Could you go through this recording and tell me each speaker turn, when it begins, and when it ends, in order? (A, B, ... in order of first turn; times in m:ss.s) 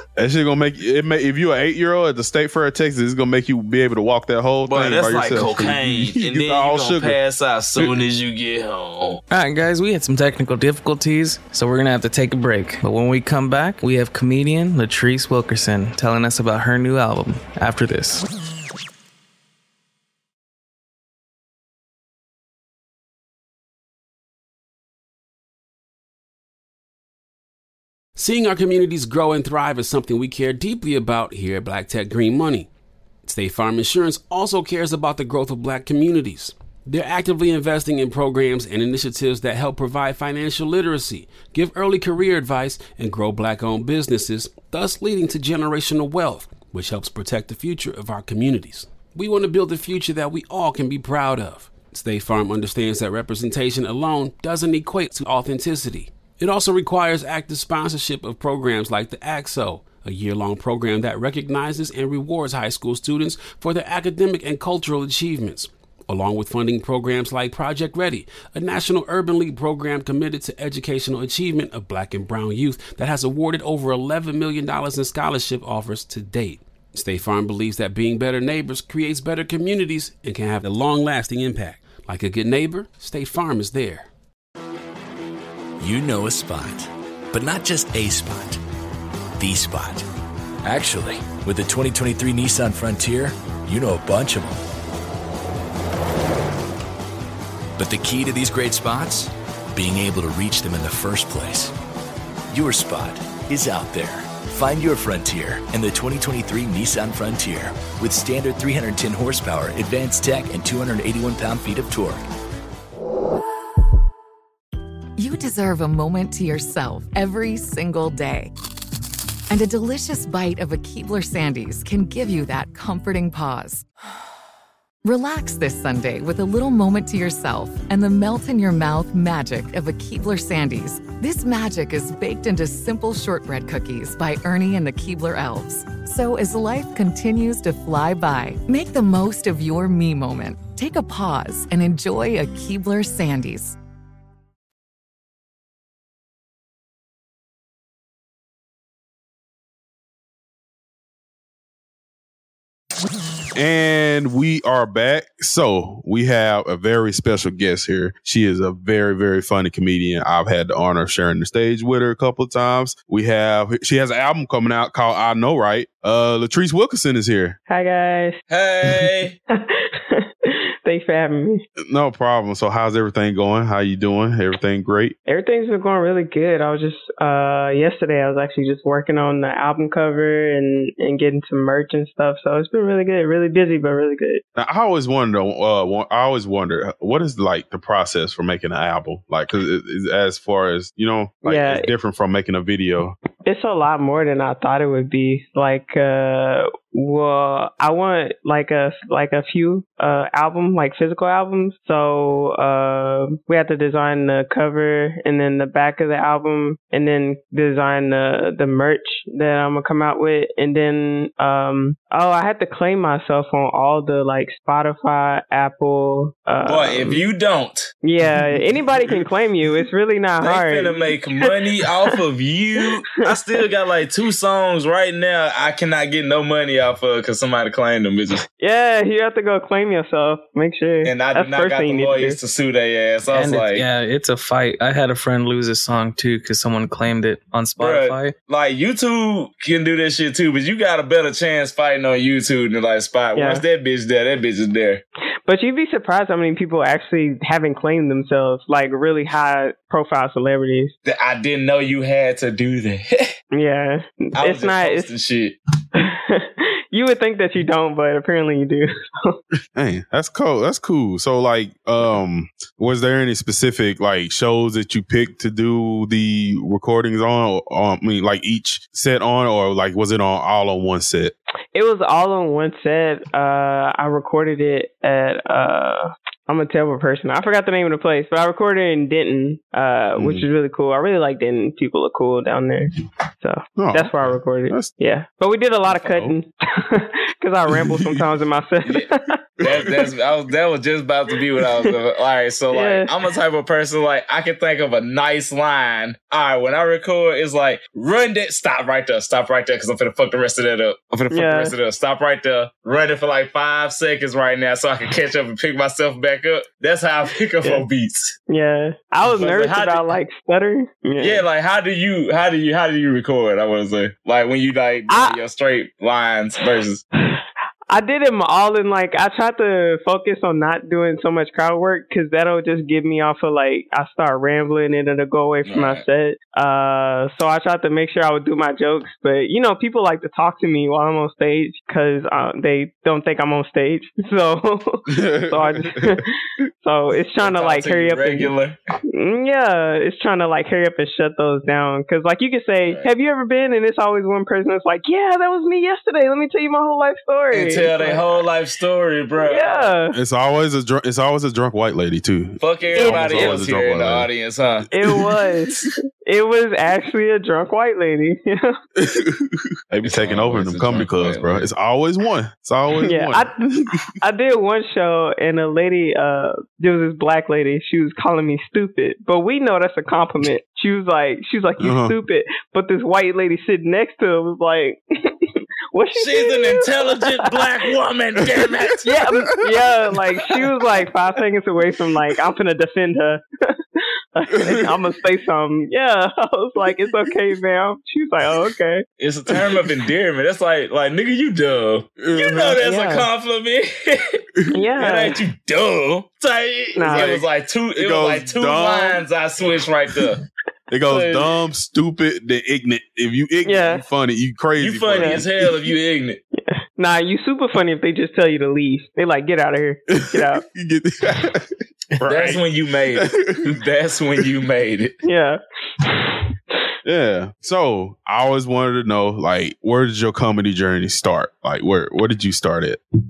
0:00.2-0:07.2 A
0:04.6-0:09.2 B
0:09.3-0:18.2 C
0:28.2-0:32.7 D
0:33.2-1:24.1 D
1:25.8-1:28.6 E
1:29.4-1:30.1 E
1:30.6-1:34.6 E
1:37.8-1:41.7 E
1:42.5-1:52.2 E
1:55.2-1:58.5 F
1:59.5-2:03.8 F
2:05.0-2:23.8 F
2:33.5-2:47.6 A
2:47.7-2:48.4 G
2:48.5-2:49.3 B
2:49.5-2:51.6 G
2:51.9-2:55.2 A
2:55.2-3:04.4 G
3:04.6-3:13.2 A
3:11.4-3:11.9 G
3:13.4-3:37.2 G
3:36.6-3:37.9 B
3:38.0-3:42.1 G
3:40.4-3:48.4 B
3:42.8-3:43.6 G
3:48.6-3:52.4 G
3:51.0-3:53.8 B
3:53.3-3:58.3 C
3:57.8-4:05.0 B
4:03.3-4:03.6 G
4:05.4-4:10.9 G
4:11.0-4:13.3 B
4:13.5-4:15.1 G
4:14.4-4:15.6 B
4:15.9-4:19.4 G
4:19.7-4:31.3 A
4:31.7-4:49.4 G
4:40.2-4:40.4 A
4:43.7-4:45.0 A
4:45.9-4:46.4 A
4:47.8-4:48.2 A
4:49.6-5:08.3 B
4:52.7-4:53.1 G
5:01.3-5:01.7 G
5:08.5-5:11.4 G
5:09.3-5:10.2 B
5:11.2-5:17.0 B
5:15.1-5:15.4 G
5:17.2-5:36.3 G
5:25.6-5:26.0 B
5:35.1-5:36.2 A
5:36.8-5:38.5 G
5:37.4-5:38.8 B
5:39.1-5:48.4 G
5:47.5-5:49.9 B
5:49.4-5:50.2 G
5:50.1-5:54.3 A
5:52.6-5:54.9 B
5:52.9-5:53.6 G
5:54.9-5:58.7 G
5:55.0-5:55.9 A
5:59.0-6:04.1 A
6:00.0-6:01.7 B
6:03.0-6:03.6 G
6:04.2-6:17.7 G
6:11.8-6:12.1 A
6:16.2-6:19.1 B
6:19.0-6:23.8 G
6:24.4-6:29.0 G
6:29.2-6:34.4 B
6:32.2-6:32.8 A
6:32.8-6:33.3 G
6:34.7-6:35.4 G
6:35.0-6:40.4 B
6:36.9-6:37.4 G
6:38.0-6:39.2 A
6:40.9-6:45.5 A
6:41.1-6:41.5 B
6:43.6-6:44.0 G
6:44.8-6:46.4 B
6:45.1-6:45.4 G
6:46.5-6:50.6 G
6:50.1-6:52.6 A
6:52.2-6:55.2 B
6:53.1-6:53.8 A
6:55.2-6:55.6 G
6:57.0-7:03.0 A